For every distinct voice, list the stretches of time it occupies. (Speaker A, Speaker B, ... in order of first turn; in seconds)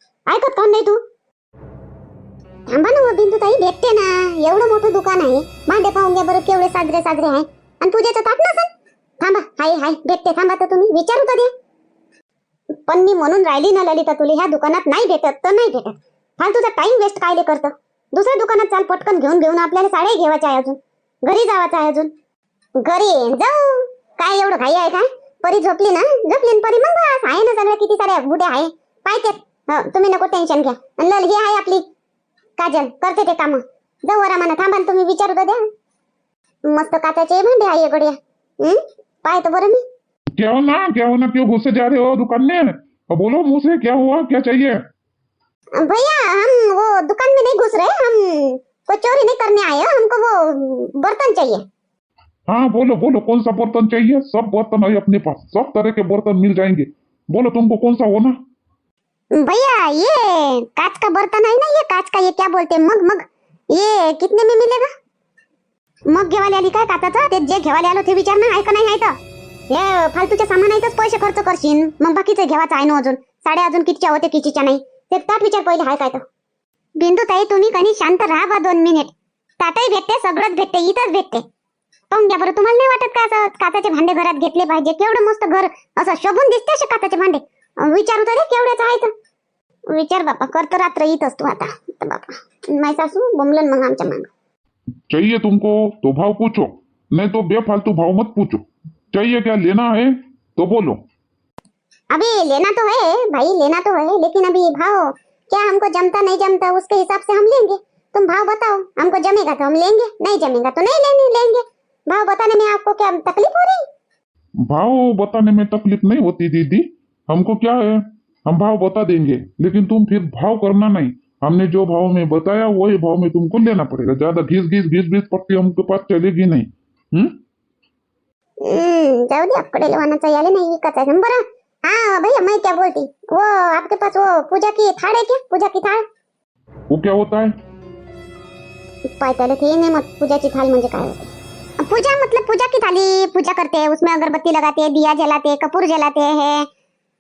Speaker A: 0.3-1.0, 2.7-11.5, 12.9-22.1, 22.8-31.8, 32.6-35.6, 36.7-39.8, 45.8-51.6, 59.3-64.9, 66.1-69.1, 69.7-76.2, 77.0-81.4, 82.1-89.1, 89.9-94.3, 102.1-113.8, 128.6-136.0, 139.2-146.7
Speaker B: 40.4-44.8, 52.5-58.4, 95.1-101.0, 114.6-127.3, 136.9-137.5